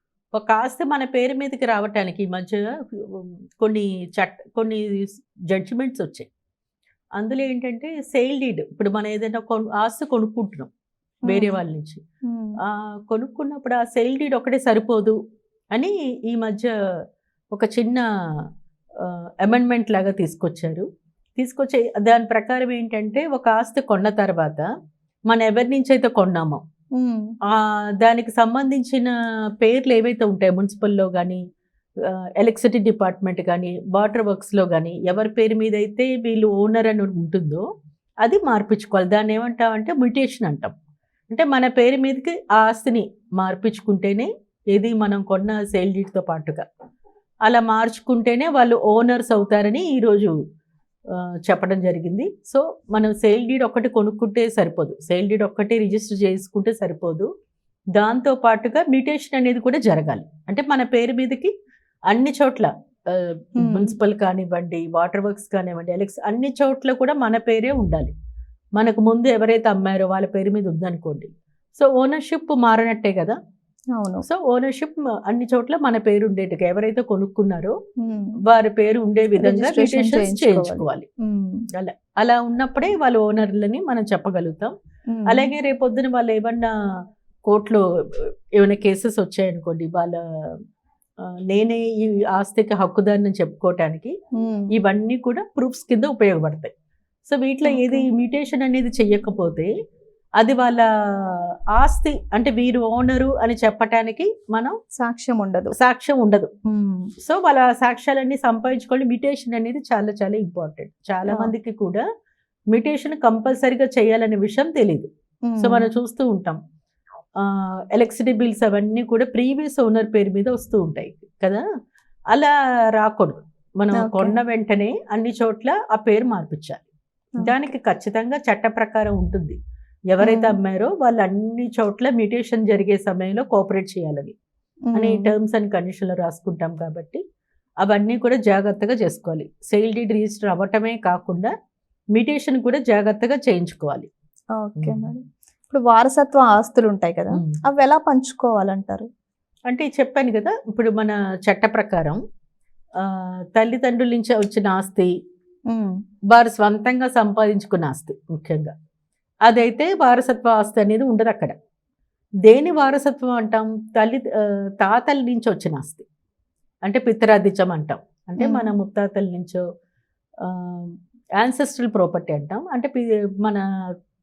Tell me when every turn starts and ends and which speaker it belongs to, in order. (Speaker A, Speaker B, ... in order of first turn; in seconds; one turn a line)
Speaker A: 0.3-6.3
Speaker A: 7.2-10.7
Speaker B: 11.3-11.6
Speaker A: 11.3-12.0
Speaker B: 12.3-12.6
Speaker A: 12.6-15.2
Speaker A: 15.7-16.7
Speaker A: 17.5-18.1
Speaker A: 19.0-20.9
Speaker A: 21.4-24.7
Speaker A: 25.3-26.6
Speaker B: 27.0-27.3
Speaker A: 27.5-29.1
Speaker A: 29.6-31.4
Speaker A: 32.0-37.6
Speaker A: 38.2-40.7
Speaker A: 41.3-46.6
Speaker A: 47.5-50.3
Speaker A: 51.1-57.3
Speaker A: 58.0-61.5
Speaker A: 62.1-68.1
Speaker B: 63.6-63.9
Speaker A: 68.8-73.4
Speaker B: 74.0-74.3
Speaker A: 74.2-77.8
Speaker B: 78.0-78.4
Speaker A: 78.5-81.1
Speaker B: 79.4-81.7
Speaker A: 81.7-84.7
Speaker B: 85.1-85.5
Speaker A: 85.3-86.7
Speaker A: 87.5-90.6
Speaker A: 91.5-94.2
Speaker B: 94.4-94.7
Speaker A: 94.7-96.7
Speaker A: 97.3-99.7
Speaker B: 97.7-98.1
Speaker A: 100.4-104.8
Speaker B: 105.0-105.7
Speaker A: 105.8-106.5
Speaker B: 106.7-107.1
Speaker A: 107.2-112.0
Speaker A: 112.7-116.6
Speaker B: 115.5-115.9
Speaker A: 117.4-121.6
Speaker A: 122.3-126.9
Speaker B: 124.0-124.3
Speaker A: 127.4-129.6
Speaker A: 130.1-134.3
Speaker B: 130.2-130.6
Speaker B: 134.9-135.3
Speaker A: 134.9-137.2
Speaker A: 137.8-141.5
Speaker A: 142.1-144.1
Speaker B: 144.6-149.1
Speaker A: 144.8-145.1
Speaker A: 149.7-152.2
Speaker A: 153.0-155.1
Speaker A: 156.3-158.7
Speaker A: 159.5-161.6
Speaker A: 162.4-166.1
Speaker A: 166.8-169.6
Speaker B: 168.4-168.7
Speaker A: 170.4-173.6